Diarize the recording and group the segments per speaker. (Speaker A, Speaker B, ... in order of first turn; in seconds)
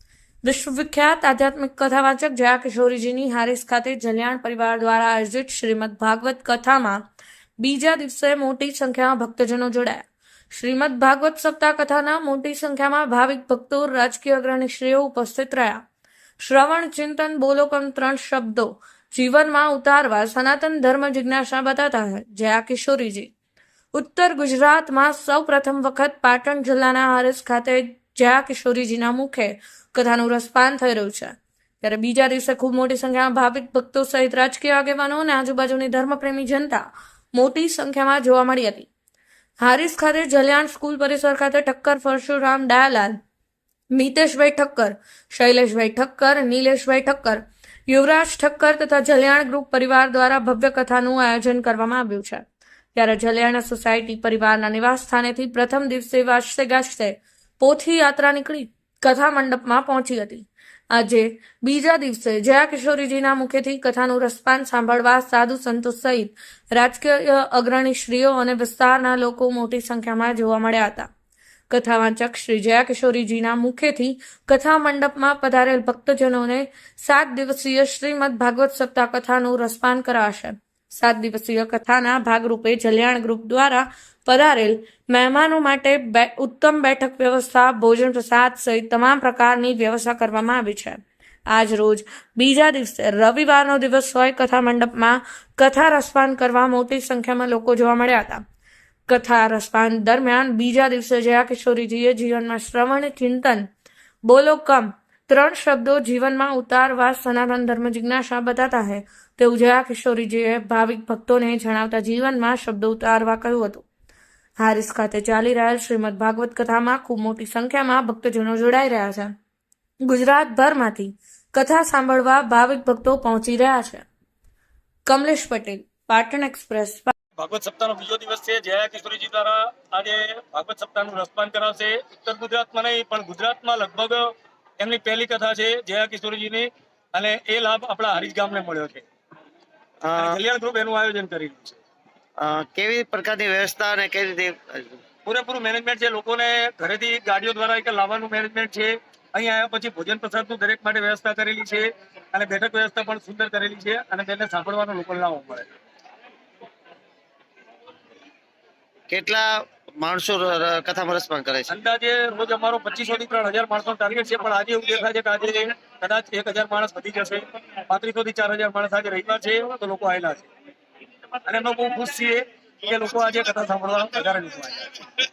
Speaker A: 0.4-7.0, 7.6-15.8, 16.4-23.3, 23.9-38.9, 39.6-43.2, 43.9-71.1, 71.7-98.4, 99.1-103.7, 104.2-113.8, 114.6-119.3, 120.0-124.1, 125.1-127.1
Speaker B: 127.4-139.1, 140.2-141.8, 145.2-155.7, 161.7-170.5, 171.4-174.9
Speaker C: 140.0-140.4, 142.4-145.0, 159.1-161.7